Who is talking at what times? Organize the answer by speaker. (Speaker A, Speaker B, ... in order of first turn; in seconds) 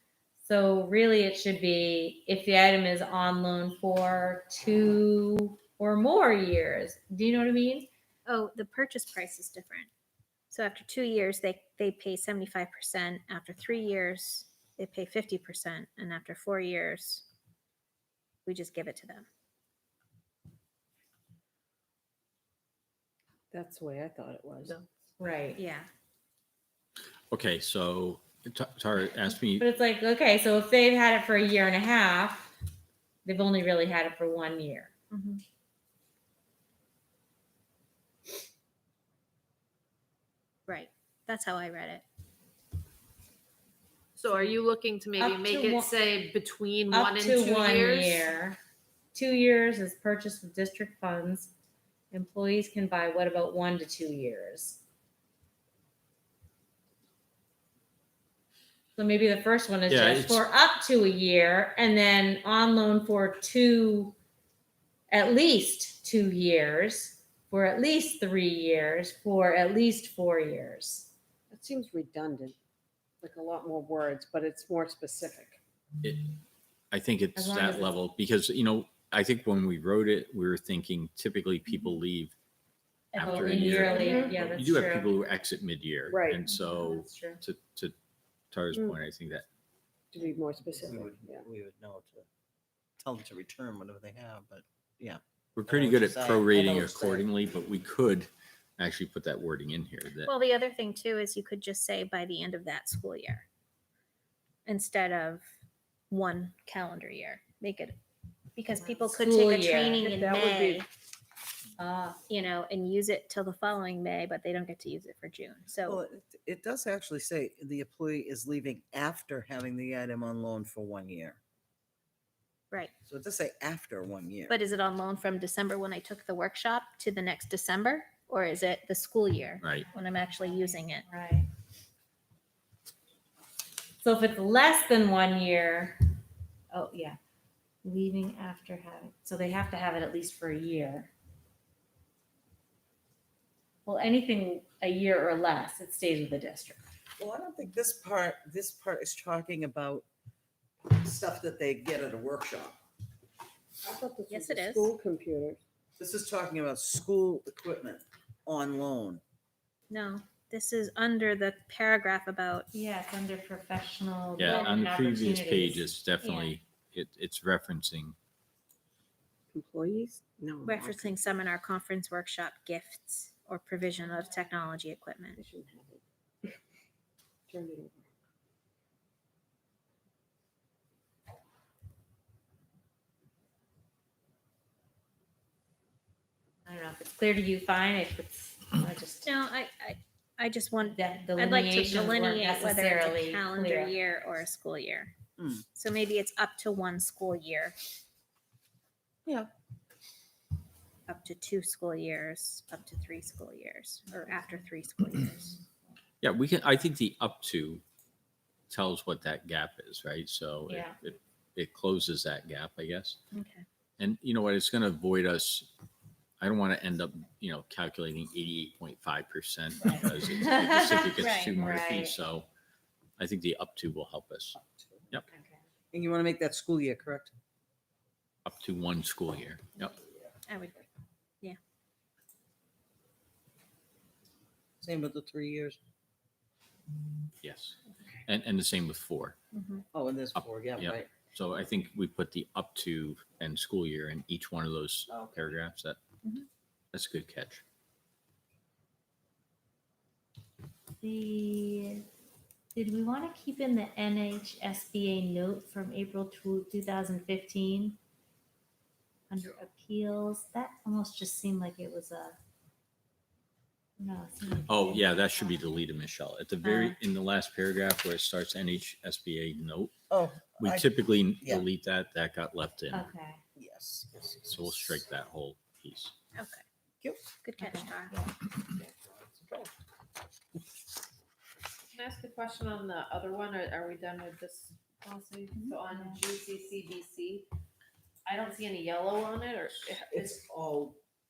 Speaker A: 0.4-7.9, 25.2-25.6, 29.6-32.5, 33.2-34.9, 45.2-46.0, 46.9-48.6, 49.1-51.5, 52.1-54.8, 59.0-64.2, 65.1-71.1, 77.3-77.9, 83.2-85.1, 86.5-87.4, 108.7-110.0, 111.8-112.2, 130.1-131.5, 134.0-136.0, 136.7-137.2, 137.8-141.1, 143.8-146.8, 162.7-165.9, 186.7-189.3, 190.9-193.9, 210.7-210.9, 219.8-222.2, 225.3-225.6, 251.0-252.1, 252.7-258.0, 259.3-262.4, 264.0-265.5, 272.9-273.4, 277.6-278.3, 285.9-286.2
Speaker B: 8.2-9.9, 10.5-17.2, 18.4-19.2, 25.6-25.9, 35.1-35.4, 40.7-42.0, 83.1-84.3, 100.2-103.5, 104.7-105.5, 106.1-108.0, 108.5-110.9, 112.3-116.0, 124.5-131.1, 154.3-154.9, 159.9-162.7, 164.4-164.7, 166.2-166.5, 170.6-175.4, 189.2-195.1, 195.7-197.8, 201.1-205.6, 213.3-213.6, 221.2-221.5, 230.5-230.8, 239.5-239.8, 266.6-267.0, 276.4-276.6, 277.4-278.1
Speaker C: 23.5-24.9, 71.5-72.5, 73.2-75.6, 84.0-84.4, 86.1-86.4, 88.7-89.0, 90.1-91.5, 110.0-110.8, 153.8-155.6, 169.5-171.2, 175.3-176.6, 177.5-178.1
Speaker D: 27.3-29.6, 59.9-60.4, 76.9-82.3, 83.1-87.9, 88.5-89.5, 95.5-100.3, 129.6-129.8, 164.4-168.2, 206.2-207.8, 208.7-213.2, 214.0-215.7, 216.4-222.5, 223.2-224.6, 228.4-229.9, 237.4-239.4, 240.8-246.0, 246.9-247.6, 264.6-269.9, 270.6-273.0, 274.5-276.1
Speaker E: 44.1-48.3, 281.9-287.5, 288.2-290.4
Speaker F: 90.7-92.2, 93.0-97.3, 115.8-121.4, 123.0-124.5, 147.2-150.1, 150.8-152.8, 156.0-159.2, 195.4-195.6, 199.2-199.5, 224.6-225.0, 225.9-227.3, 234.8-235.8, 239.9-241.1, 270.1-270.9, 273.6-275.0, 278.8-279.7, 290.1-291.0